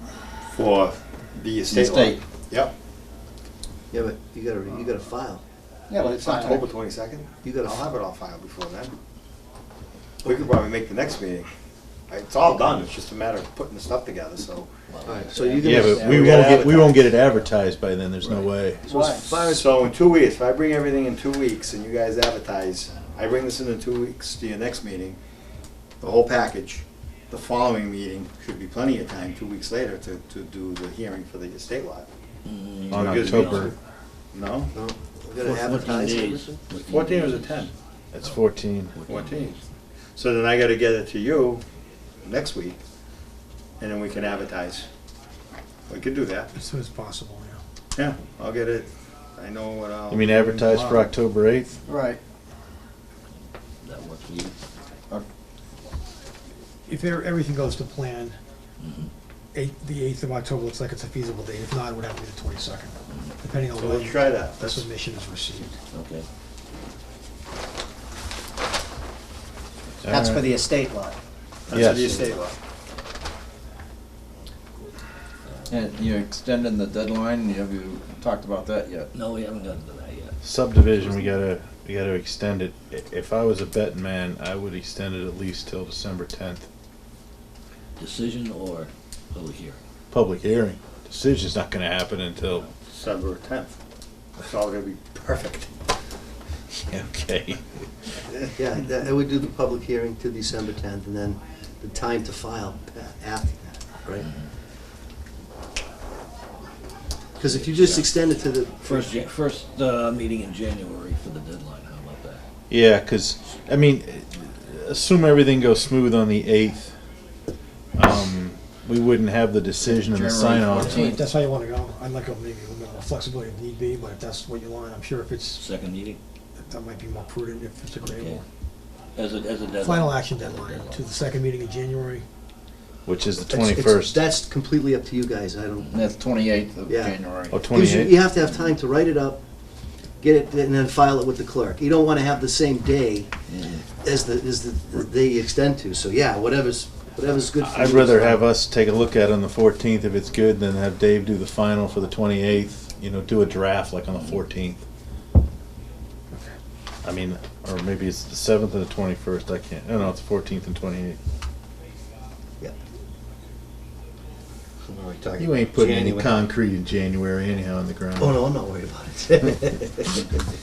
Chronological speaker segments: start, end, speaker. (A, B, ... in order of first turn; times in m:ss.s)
0:00.5-0:02.7 A
0:01.7-0:02.2 B
0:03.9-0:05.4 C
0:05.9-0:06.7 D
0:06.0-0:08.9 A
0:07.4-0:07.9 C
0:10.2-0:11.5 A
0:12.1-0:14.7 A
0:15.0-0:16.4 E
0:15.0-0:16.9 C
0:15.5-0:17.1 A
0:15.6-0:18.8 F
0:18.9-0:19.4 D
0:18.9-0:19.7 C
0:19.4-0:25.2 A
0:26.0-0:32.1 A
0:32.4-0:33.7 E
0:32.9-0:33.7 F
0:32.9-0:33.7 A
0:34.3-0:34.7 A
0:34.7-0:36.6 C
0:35.4-0:37.7 E
0:36.7-0:37.7 A
0:38.1-0:38.9 F
0:38.9-0:39.6 E
0:39.1-0:39.6 A
0:40.2-0:41.6 A
0:42.2-0:42.8 A
0:43.8-0:44.9 A
0:45.9-0:46.5 A
0:46.5-0:47.6 G
0:48.0-0:51.1 A
0:50.1-0:51.8 F
0:51.9-0:52.2 B
0:53.8-0:54.6 E
0:56.9-0:58.4 G
0:58.8-0:59.1 E
0:59.5-1:05.8 G
1:03.8-1:04.9 A
1:05.9-1:06.3 E
1:10.1-1:10.5 F
1:10.1-1:11.2 D
1:11.7-1:12.6 A
1:11.7-1:12.0 F
1:15.5-1:15.9 E
1:15.7-1:19.1 B
1:19.1-1:20.4 E
1:20.4-1:26.7 F
1:28.0-1:29.8 E
1:30.1-1:32.7 F
1:32.9-1:33.8 A
1:34.4-1:35.7 A
1:36.9-1:37.9 F
1:38.6-1:44.3 C
1:47.4-1:49.2 C
1:47.4-1:48.1 E
1:48.8-1:52.4 E
1:52.7-1:56.9 F
1:58.0-2:01.1 F
1:59.8-2:01.3 B
2:00.8-2:05.6 G
2:05.6-2:06.2 E
2:06.7-2:08.4 G
2:08.0-2:08.4 E
2:09.2-2:11.1 E
2:09.8-2:12.2 G
2:13.1-2:14.2 F
2:13.5-2:16.0 C
2:15.9-2:17.6 B
2:16.9-2:17.2 C
2:17.5-2:18.2 F
2:17.7-2:19.4 C
2:20.2-2:23.3 C
2:23.5-2:23.8 E
2:24.0-2:28.5 C
2:27.6-2:34.8 F
2:37.0-2:41.2 F
2:44.9-2:46.5 C
2:45.4-2:48.5 F
2:48.2-2:50.3 C